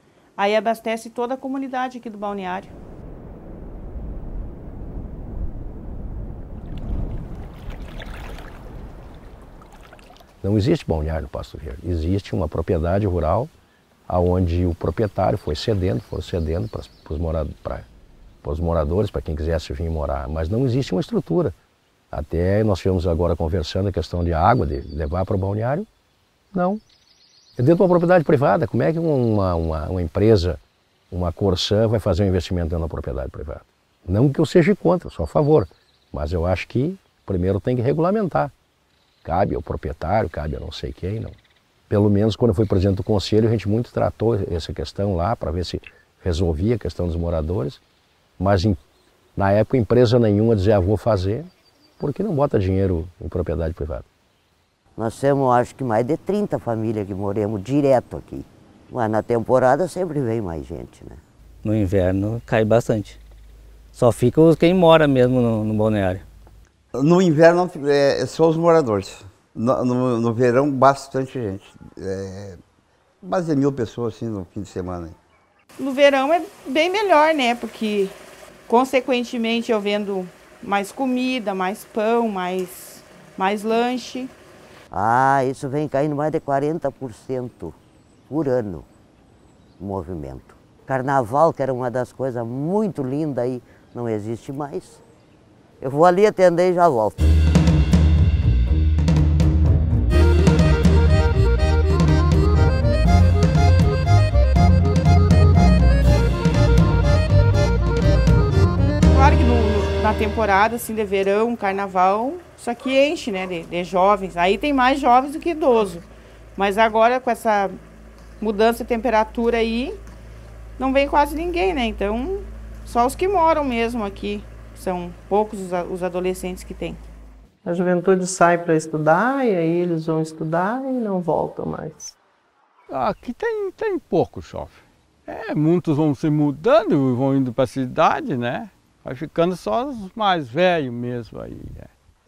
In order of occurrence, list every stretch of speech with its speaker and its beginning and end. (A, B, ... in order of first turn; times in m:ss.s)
0:00.4-0:02.7 A
0:10.4-0:13.5 B
0:14.1-0:17.9 B
0:18.4-0:21.6 B
0:22.1-0:25.9 B
0:26.5-0:26.8 B
0:27.6-0:30.6 B
0:31.1-0:38.5 B
0:39.2-0:41.4 B
0:41.9-0:47.8 B
0:48.4-0:48.8 B
0:49.4-0:54.1 B
0:55.0-1:01.2 C
1:01.6-1:03.2 D
1:03.9-1:06.2 D
1:07.0-1:12.6 E
1:13.2-1:15.2 E
1:15.8-1:18.2 A
1:18.7-1:24.3 A
1:24.9-1:27.8 C
1:28.3-1:28.9 C
1:29.8-1:35.0 C
1:35.8-1:37.3 C
1:49.1-1:56.0 A
1:56.6-1:57.8 A
1:58.4-2:00.0 A
2:00.8-2:07.0 A
2:07.6-2:12.2 F
2:12.9-2:21.9 G